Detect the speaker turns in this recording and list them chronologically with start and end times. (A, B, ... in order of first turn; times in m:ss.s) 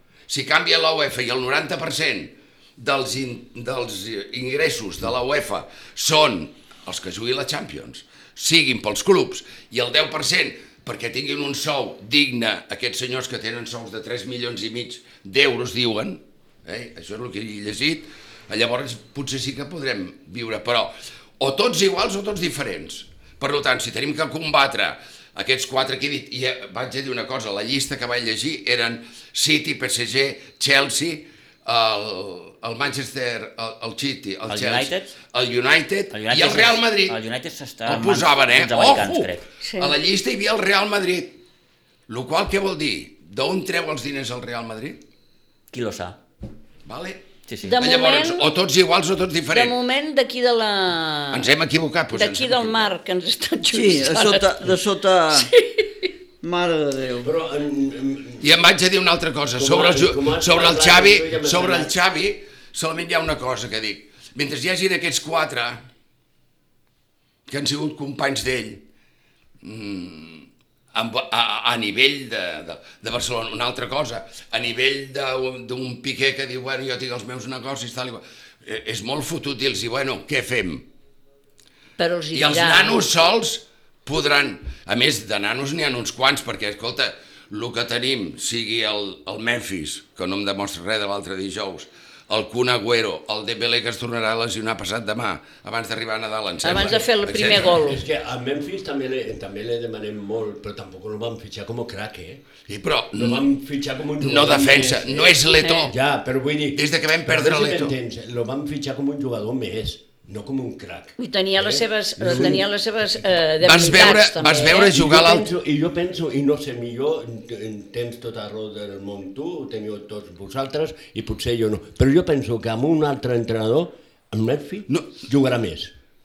0:00.3-0:37.2 A
0:34.5-0:35.1 B
0:36.1-0:39.4 B
0:37.8-0:41.4 A
0:39.6-0:40.0 C
0:42.1-0:45.0 A
0:45.7-0:46.2 B
0:46.8-0:49.8 A
0:47.5-0:47.8 B
0:47.6-0:48.5 C
0:49.5-0:51.5 C
0:51.3-0:52.9 A
0:52.1-0:54.6 C
0:53.7-0:55.5 D
0:55.3-0:56.1 C
0:56.4-0:57.3 D
0:57.2-0:58.5 E
0:58.4-1:05.8 A
0:59.5-1:01.9 E
1:07.5-1:08.8 A
1:09.6-1:20.8 A
1:22.0-1:23.1 C
1:22.3-1:37.8 A
1:36.6-1:38.0 C
1:37.4-1:42.4 E
1:42.7-1:43.4 A
1:43.2-1:52.6 E
1:44.2-1:45.9 A
1:45.6-1:45.9 C
1:46.7-1:48.0 A
1:51.2-1:54.9 C
1:53.6-1:55.5 A
1:54.9-2:05.9 E
2:04.9-2:05.2 A